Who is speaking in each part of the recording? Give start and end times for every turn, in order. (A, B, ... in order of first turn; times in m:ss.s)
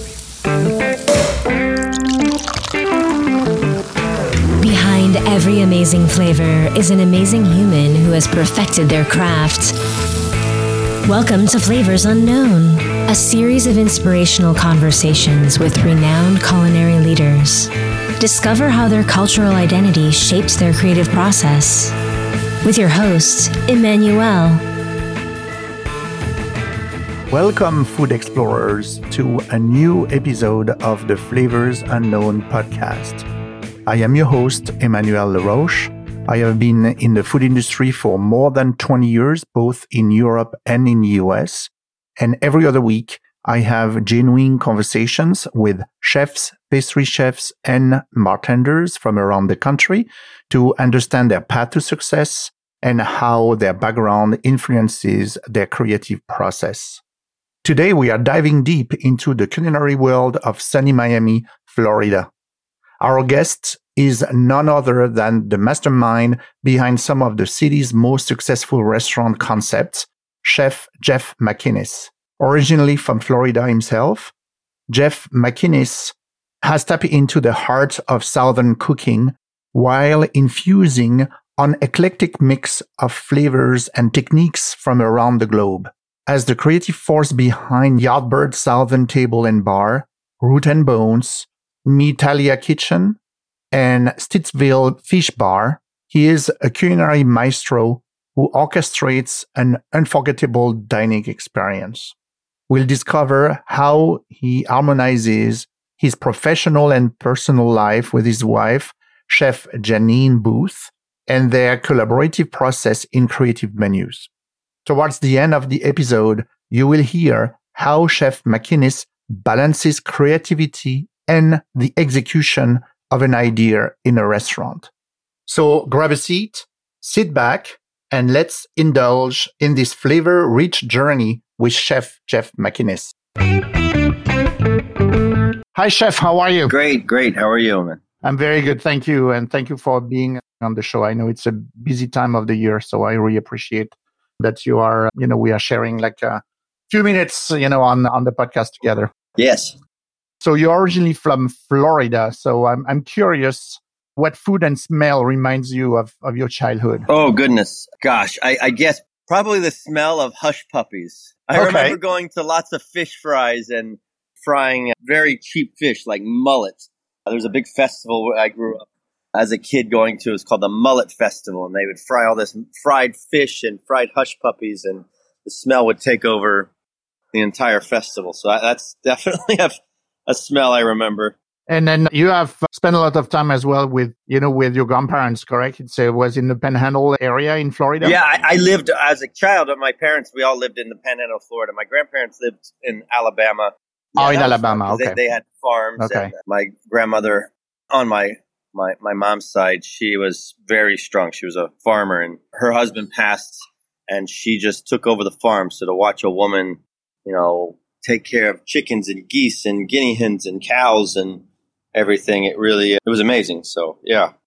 0:04.6-0:09.7 A
0:11.0-0:21.9 A
0:22.6-0:24.6 A
0:27.3-0:33.2 B
0:33.8-0:57.0 B
0:57.6-1:02.3 B
1:03.0-1:14.3 B
1:14.9-1:33.2 B
1:33.7-1:42.1 B
1:42.7-1:54.3 B
1:54.8-2:04.9 B
2:05.5-2:13.1 B
2:15.7-2:16.7 B
2:16.7-2:18.0 C
2:18.2-2:29.1 B
2:29.4-2:29.7 C
2:30.4-2:37.1 B
2:37.1-2:48.8 C
2:41.5-2:42.0 B
2:49.4-2:56.7 C
2:57.3-2:59.8 C
3:00.3-3:01.3 C
3:01.7-3:08.2 B
3:08.0-3:34.3 C
3:14.2-3:15.2 B
3:16.0-3:16.3 B